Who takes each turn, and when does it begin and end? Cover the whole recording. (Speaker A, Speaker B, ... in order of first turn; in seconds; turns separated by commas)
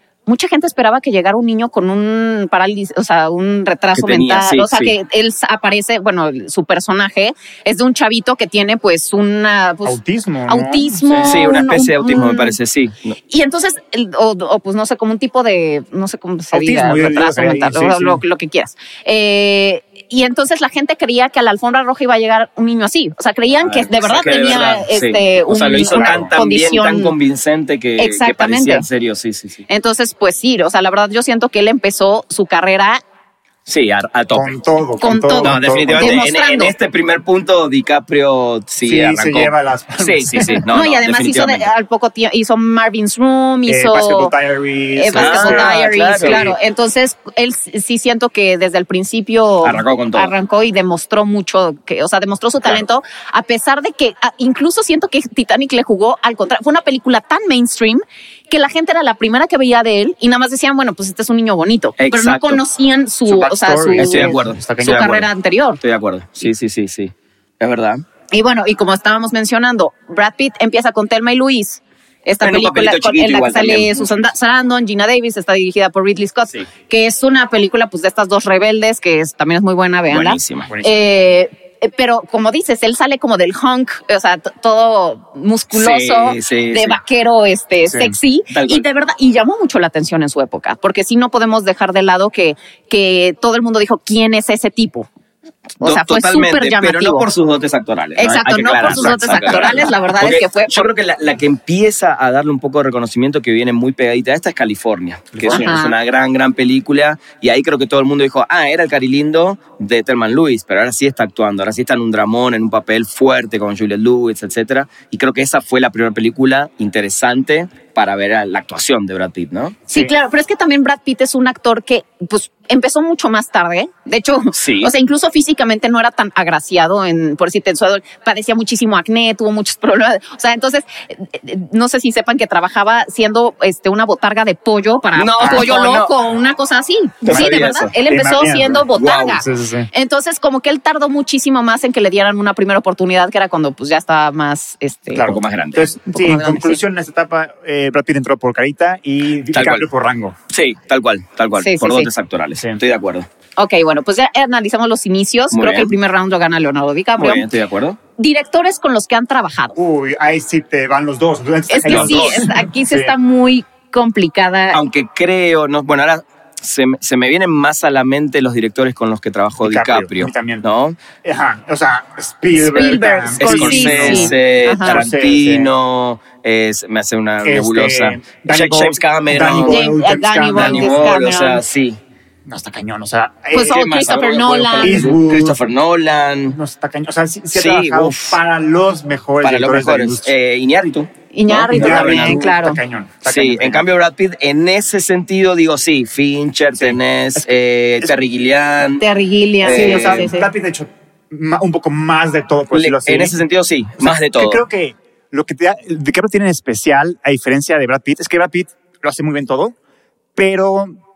Speaker A: 0.3-12.6, Speaker B: 4.0-4.9, Speaker C: 9.8-11.4, Speaker B: 11.2-13.2, Speaker A: 13.3-27.1, Speaker C: 16.5-18.2, Speaker B: 23.6-29.7, Speaker C: 25.9-26.3, Speaker A: 28.0-28.9, Speaker A: 29.7-33.0, Speaker B: 33.7-34.5, Speaker C: 34.3-36.2, Speaker A: 35.0-36.7, Speaker B: 35.4-41.7, Speaker C: 38.8-40.6, Speaker A: 40.7-44.3, Speaker C: 43.7-46.6, Speaker A: 44.9-65.8, Speaker B: 45.1-46.5, Speaker B: 49.6-50.3, Speaker B: 62.0-62.6, Speaker C: 63.3-65.3, Speaker B: 64.0-65.2, Speaker B: 65.8-68.0, Speaker A: 68.3-95.1, Speaker B: 72.4-74.0, Speaker B: 80.1-80.7, Speaker C: 80.7-81.1, Speaker B: 85.7-87.0, Speaker C: 87.9-88.2, Speaker B: 88.5-88.8, Speaker B: 95.8-119.8, Speaker A: 95.8-97.3, Speaker A: 98.2-100.9, Speaker C: 98.8-99.8, Speaker C: 105.3-105.7, Speaker A: 105.5-106.0, Speaker A: 119.9-145.3, Speaker B: 124.5-124.9, Speaker B: 135.2-136.1, Speaker C: 135.4-135.7, Speaker B: 137.2-137.9, Speaker C: 137.3-138.9, Speaker B: 138.9-139.4, Speaker C: 139.4-139.9, Speaker C: 145.1-150.4, Speaker B: 145.2-145.9, Speaker A: 146.1-146.8, Speaker B: 149.5-149.9, Speaker B: 150.5-153.3, Speaker A: 151.6-152.1, Speaker C: 152.6-152.8, Speaker A: 153.6-157.5, Speaker B: 155.5-155.9, Speaker B: 157.2-158.0, Speaker A: 158.2-159.8, Speaker C: 159.8-163.2, Speaker A: 161.7-164.8, Speaker B: 161.8-162.5, Speaker B: 164.7-171.0, Speaker C: 169.6-170.7, Speaker C: 171.2-175.7, Speaker A: 172.6-175.0, Speaker B: 172.9-179.8, Speaker C: 177.4-181.2, Speaker A: 179.7-181.6, Speaker B: 180.5-182.0, Speaker C: 182.5-183.8, Speaker A: 183.5-185.1, Speaker B: 183.6-186.6, Speaker C: 184.8-185.6, Speaker C: 186.5-190.3, Speaker B: 187.5-188.4, Speaker B: 189.4-192.5, Speaker A: 191.3-192.8, Speaker C: 191.7-193.8, Speaker B: 193.2-199.0, Speaker C: 196.8-197.4, Speaker A: 199.0-200.5, Speaker B: 199.6-200.3, Speaker C: 199.7-203.4, Speaker B: 202.7-204.6, Speaker C: 204.0-209.8, Speaker C: 210.4-210.9